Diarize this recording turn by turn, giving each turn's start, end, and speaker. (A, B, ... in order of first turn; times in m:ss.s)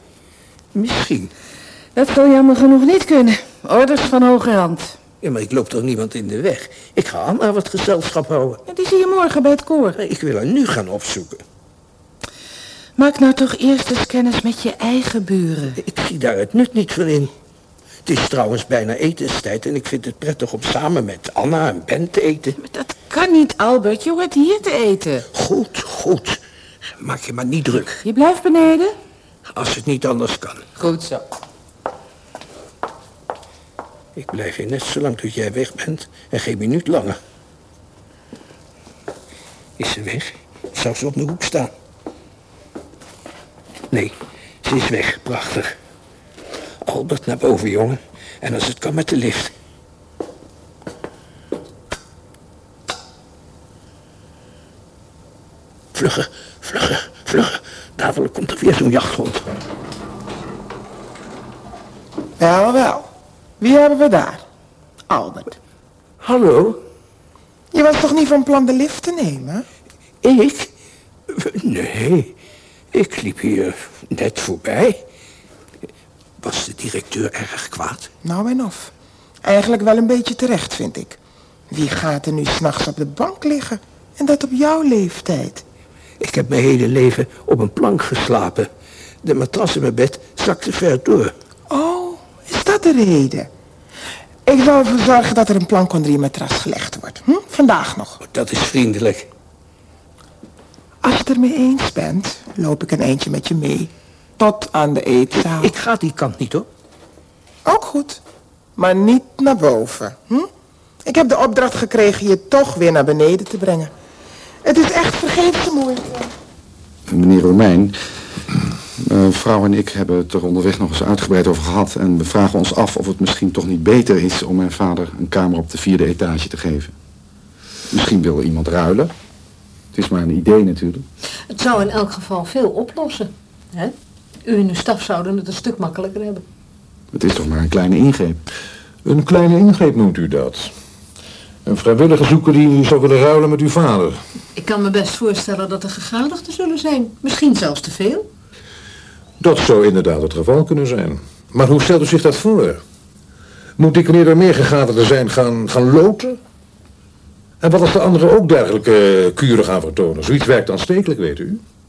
0:00.7-0:01.3 A
0:01.9-0:05.0 B
0:05.2-0:08.6 A
0:08.7-0:10.0 B
0:09.9-0:11.4 A
0:13.0-0:15.8 B
0:15.8-0:17.3 A
0:18.0-0:22.6 A
0:22.6-0:25.2 B
0:25.3-0:26.4 A
0:27.0-0:28.0 A
0:28.0-0:28.9 B
0:29.5-0:30.7 A
0:30.8-0:31.2 B
0:34.2-0:37.2 A
0:39.8-0:41.7 A
0:43.9-0:45.7 A
0:46.8-0:49.5 A
0:55.9-0:59.4 A
1:02.4-1:03.1 C
1:03.6-1:04.4 C
1:05.1-1:05.6 C
1:06.2-1:06.8 A
1:07.7-1:09.6 C
1:10.2-1:10.7 A
1:11.3-1:12.4 A
1:12.9-1:15.0 A
1:16.4-1:18.1 A
1:18.2-1:18.9 C
1:19.4-1:21.2 C
1:21.7-1:25.6 C
1:26.2-1:28.7 A
1:29.2-1:31.3 A
1:31.7-1:33.5 C
1:34.4-1:38.2 C
1:38.2-1:39.3 A
1:41.0-1:45.7 C
1:45.4-1:46.7 A
1:47.6-1:48.2 C
1:48.8-1:50.5 C
1:51.0-1:53.9 C
1:54.6-1:56.3 C
1:57.1-1:57.9 D
1:59.0-2:06.9 D
2:07.9-2:09.1 D
2:09.9-2:11.0 D
2:11.5-2:16.4 E
2:17.1-2:18.4 D
2:19.0-2:20.7 F
2:21.6-2:24.2 F
2:24.6-2:28.3 E
2:29.4-2:32.8 F
2:33.8-2:36.4 F
2:37.6-2:41.6 F